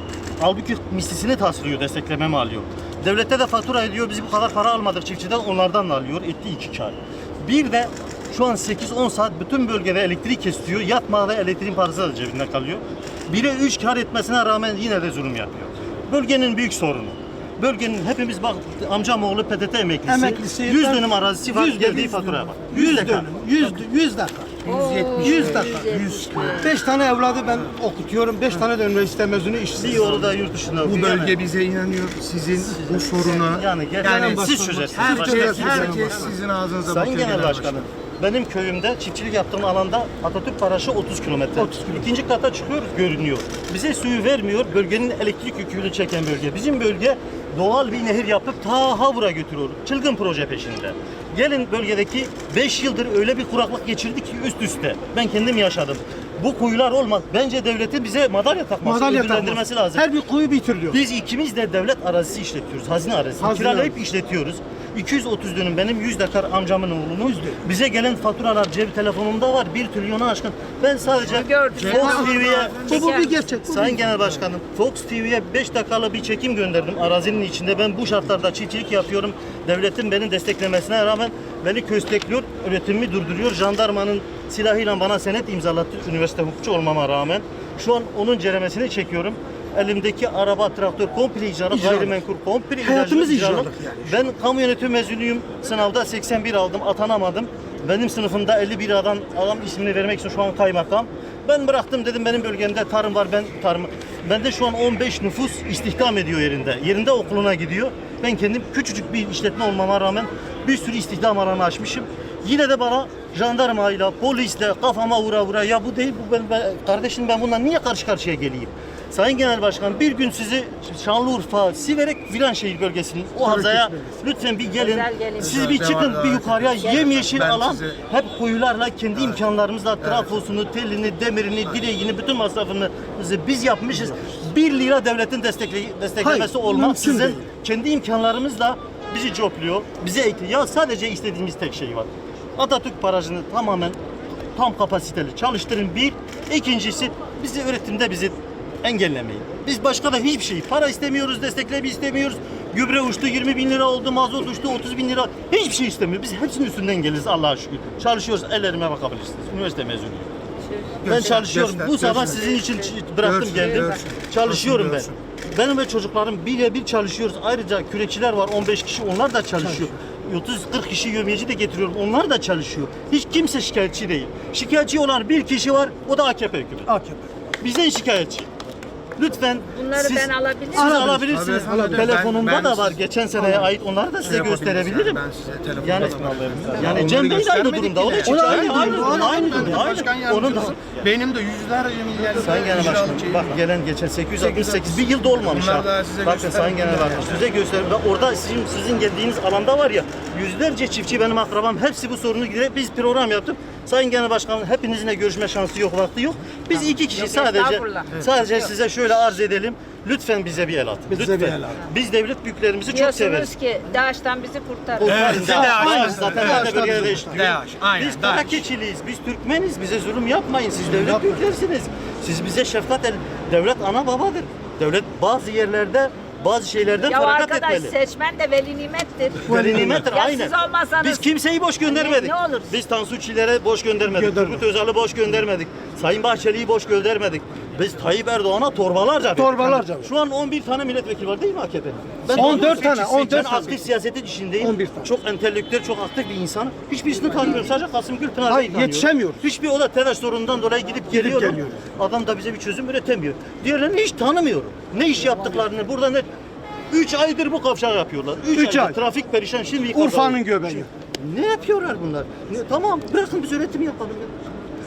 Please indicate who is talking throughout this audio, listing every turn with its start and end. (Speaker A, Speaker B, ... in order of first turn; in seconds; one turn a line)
Speaker A: 0.4-23.5
Speaker B: 20.1-30.1
Speaker C: 24.6-26.8
Speaker D: 25.2-25.8
Speaker A: 29.8-31.4
Speaker D: 30.9-37.9
Speaker B: 31.6-31.9
Speaker A: 32.8-36.3
Speaker B: 34.0-36.4
Speaker A: 36.8-60.1
Speaker B: 58.8-61.0
Speaker A: 60.9-144.0
Speaker B: 63.4-63.9
Speaker C: 71.3-73.4
Speaker D: 71.8-73.2
Speaker B: 71.9-74.0
Speaker B: 91.7-92.1
Speaker B: 92.8-94.0
Speaker D: 123.5-123.8
Speaker C: 124.8-125.7
Speaker D: 125.4-128.0
Speaker C: 126.8-127.1
Speaker B: 136.2-137.4
Speaker A: 144.6-160.3
Speaker C: 160.7-161.4
Speaker D: 161.0-162.4
Speaker A: 161.0-176.9
Speaker C: 162.1-164.0
Speaker D: 163.2-165.2
Speaker B: 176.9-177.2
Speaker A: 177.6-178.5
Speaker A: 179.2-185.2
Speaker C: 179.7-181.0
Speaker D: 180.8-183.0
Speaker B: 180.8-182.2
Speaker D: 184.2-193.6
Speaker A: 185.8-190.8
Speaker B: 188.2-190.0
Speaker A: 192.4-213.5
Speaker D: 194.4-197.4
Speaker C: 207.1-208.2
Speaker B: 211.2-211.7
Speaker D: 211.2-211.5
Speaker C: 212.9-215.3
Speaker A: 215.0-227.9
Speaker D: 215.0-218.6
Speaker B: 215.2-217.5
Speaker C: 227.0-231.3
Speaker A: 229.4-256.3
Speaker B: 229.5-230.1
Speaker C: 231.8-232.7
Speaker B: 234.2-234.6
Speaker B: 239.4-240.1
Speaker B: 242.3-243.8
Speaker D: 242.4-242.8
Speaker B: 244.6-245.1
Speaker B: 248.5-249.4
Speaker B: 251.2-251.8
Speaker A: 256.9-264.3
Speaker B: 258.5-259.0
Speaker B: 259.9-260.9